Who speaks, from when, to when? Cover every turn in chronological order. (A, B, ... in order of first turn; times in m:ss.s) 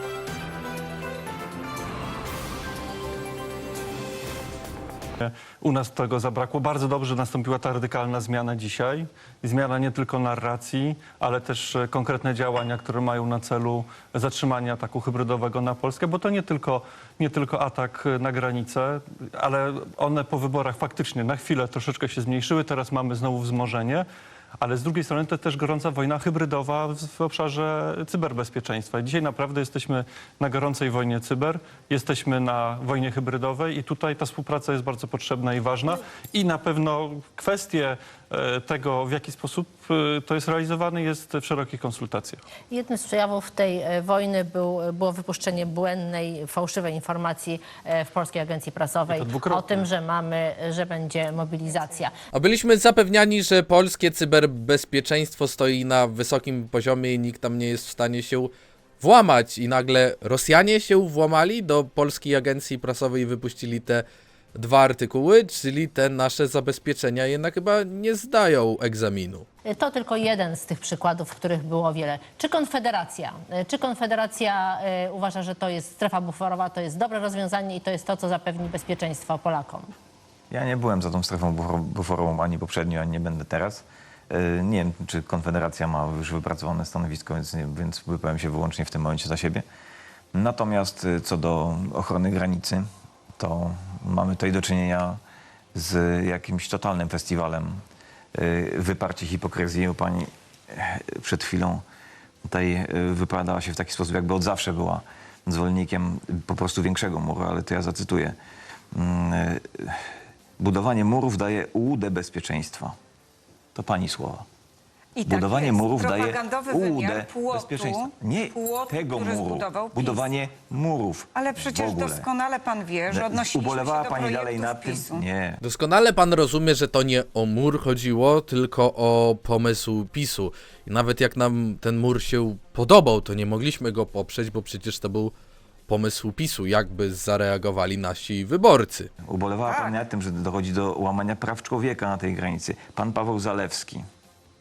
0:05.2-0:24.0 A
0:24.6-0:42.4 A
0:42.7-0:52.1 B
0:49.1-0:49.8 A
0:52.3-1:09.4 C
1:09.6-1:19.9 B
1:20.5-1:29.6 D
1:30.3-1:32.8 D
1:33.4-1:35.2 D
1:35.7-1:37.8 D
1:38.3-1:41.8 D
1:42.4-1:48.3 D
1:48.9-1:50.0 D
1:50.6-1:52.9 D
1:53.7-1:54.4 D
1:55.2-2:00.3 E
1:55.2-2:02.3 D
2:01.3-2:05.2 E
2:03.1-2:05.6 D
2:05.6-2:15.3 C
2:15.9-2:19.1 C
2:19.2-2:24.0 D
2:19.6-2:19.9 E